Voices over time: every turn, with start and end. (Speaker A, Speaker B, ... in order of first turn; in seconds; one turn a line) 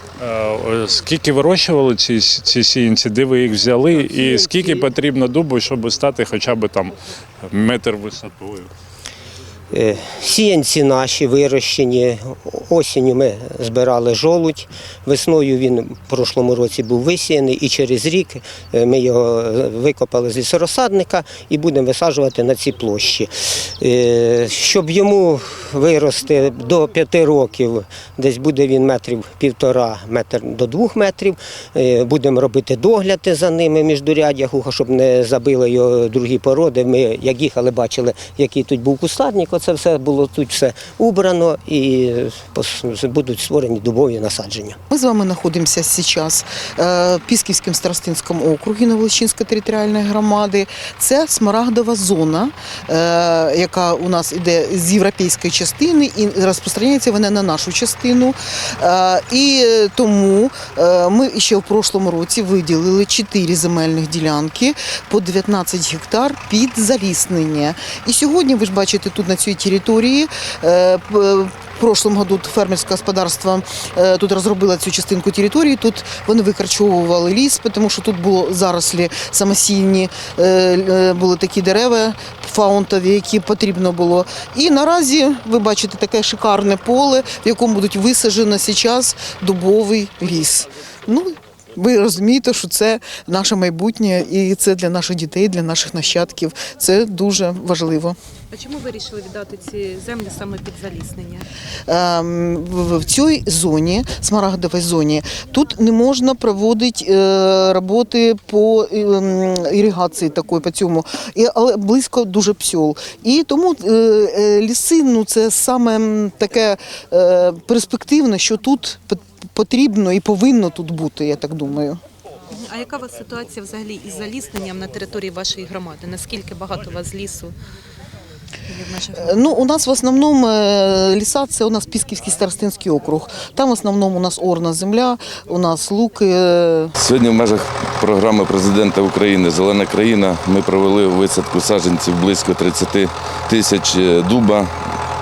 Speaker A: 0.2-8.7
Speaker B: 9.7-44.8
Speaker C: 44.9-98.2
Speaker D: 98.5-101.5
Speaker C: 101.9-122.0
Speaker D: 122.5-127.5
Speaker D: 128.7-129.6
Speaker C: 129.2-136.9
Speaker E: 137.0-144.7